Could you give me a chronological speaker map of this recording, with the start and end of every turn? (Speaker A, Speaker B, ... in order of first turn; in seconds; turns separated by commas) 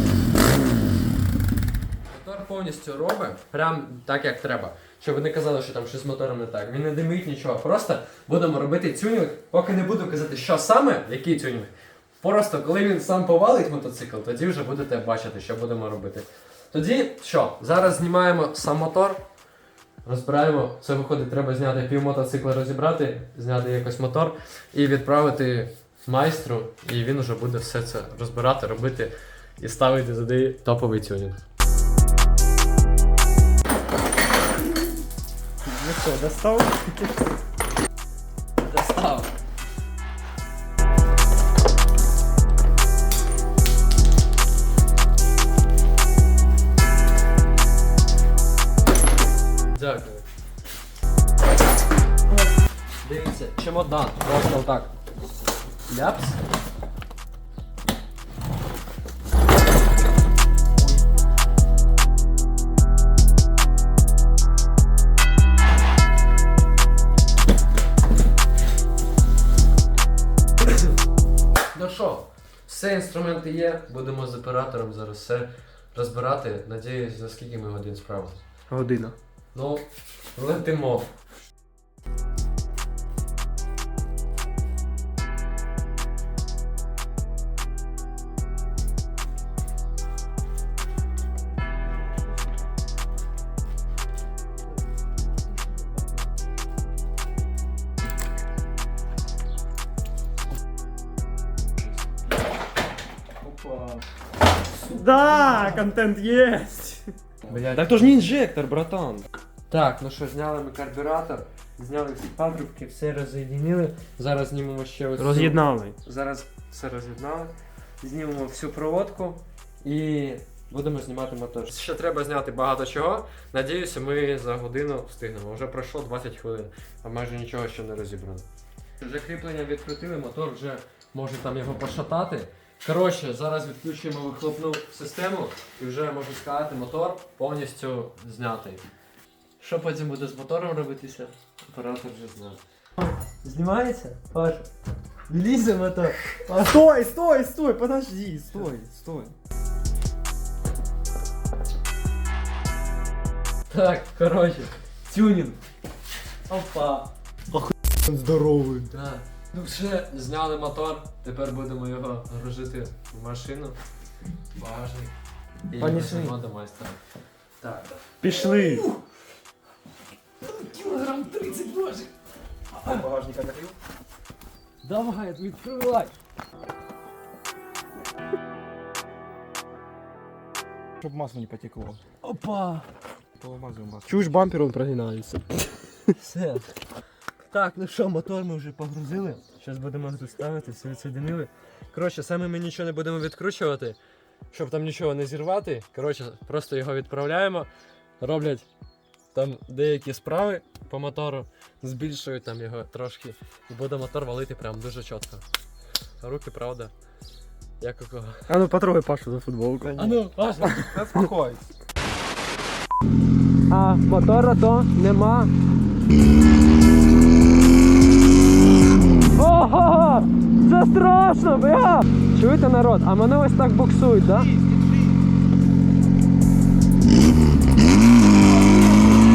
Speaker A: 2.1-19.2, Speaker A: 20.0-31.4, Speaker B: 35.7-37.0, Speaker C: 36.1-36.9, Speaker A: 38.6-39.3, Speaker A: 49.7-50.2, Speaker A: 53.0-54.9, Speaker A: 55.9-56.4, Speaker A: 71.7-78.4, Speaker B: 78.7-79.1, Speaker A: 79.5-81.1, Speaker B: 103.4-104.0, Speaker B: 104.8-109.2, Speaker C: 105.3-105.7, Speaker A: 107.5-108.3, Speaker A: 109.7-128.4, Speaker B: 115.2-115.9, Speaker A: 129.0-138.8, Speaker A: 139.6-144.7, Speaker A: 145.3-146.8, Speaker B: 146.7-149.3, Speaker C: 148.5-149.1, Speaker A: 153.7-155.6, Speaker A: 156.5-157.1, Speaker B: 158.0-158.8, Speaker A: 158.9-163.8, Speaker A: 164.5-165.1, Speaker A: 165.7-167.0, Speaker B: 165.8-166.3, Speaker A: 167.6-169.0, Speaker B: 168.2-168.8, Speaker A: 170.4-172.1, Speaker A: 172.7-173.7, Speaker C: 172.8-173.6, Speaker A: 174.8-176.1, Speaker C: 181.0-182.0, Speaker A: 182.2-182.8, Speaker C: 183.4-184.3, Speaker B: 184.1-185.6, Speaker A: 186.1-186.7, Speaker A: 187.4-194.0, Speaker A: 194.5-197.7, Speaker A: 198.2-198.7, Speaker A: 199.3-205.4, Speaker A: 206.2-206.9, Speaker A: 207.8-208.4, Speaker B: 208.5-211.1, Speaker A: 209.9-211.2, Speaker C: 210.9-211.6, Speaker A: 213.7-215.5, Speaker A: 219.3-224.5